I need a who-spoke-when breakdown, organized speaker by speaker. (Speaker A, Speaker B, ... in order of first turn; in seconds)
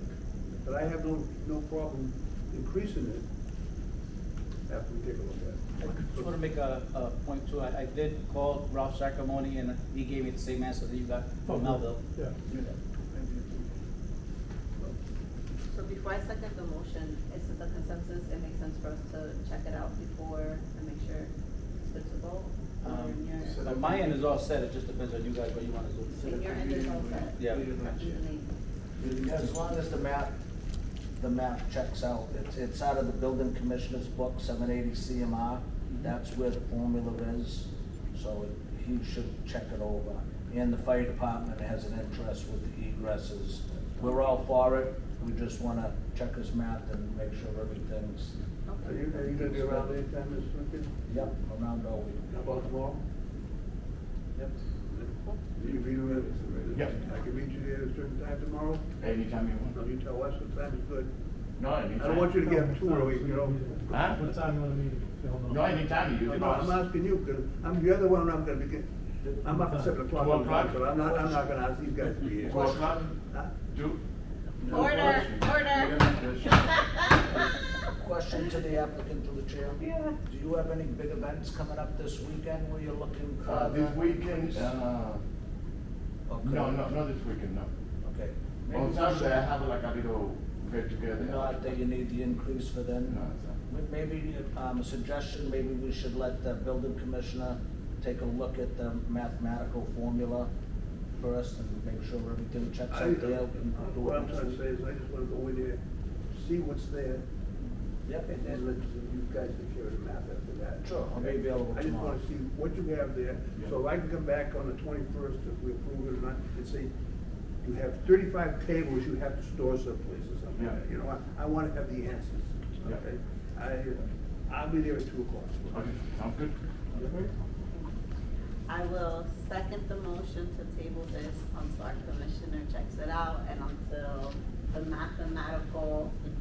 Speaker A: 0.6-3.2, 4.7-6.3, 13.2-13.6, 48.8-50.9, 52.3-53.0, 54.9-58.8, 59.7-61.1, 62.0-63.9, 66.2-73.5, 102.9-105.8, 106.3-107.2, 108.2-116.9, 117.6-125.8, 126.9-127.2
Speaker B: 5.8-12.0, 22.8-26.6, 27.3-27.6
Speaker C: 11.4-12.3, 62.4-65.8, 69.4-70.0, 127.0-127.3
Speaker D: 15.7-23.6, 26.1-28.5, 74.7-77.1, 79.8-80.2, 128.7-136.2
Speaker E: 23.4-24.1, 26.2-28.2, 59.0-59.8, 61.6-62.4, 63.9-64.2, 65.5-66.8, 70.1-70.8, 72.4-73.1, 73.7-74.0, 74.6-76.6, 83.4-85.2, 86.4-87.7, 88.7-91.6, 93.1-93.6, 125.7-126.5
Speaker F: 29.0-30.3, 31.2-48.4, 49.0-49.9, 51.1-52.2, 77.3-84.6, 86.3-86.8, 88.0-89.3, 91.2-100.5, 101.2-104.6, 108.0-108.3, 110.8-112.2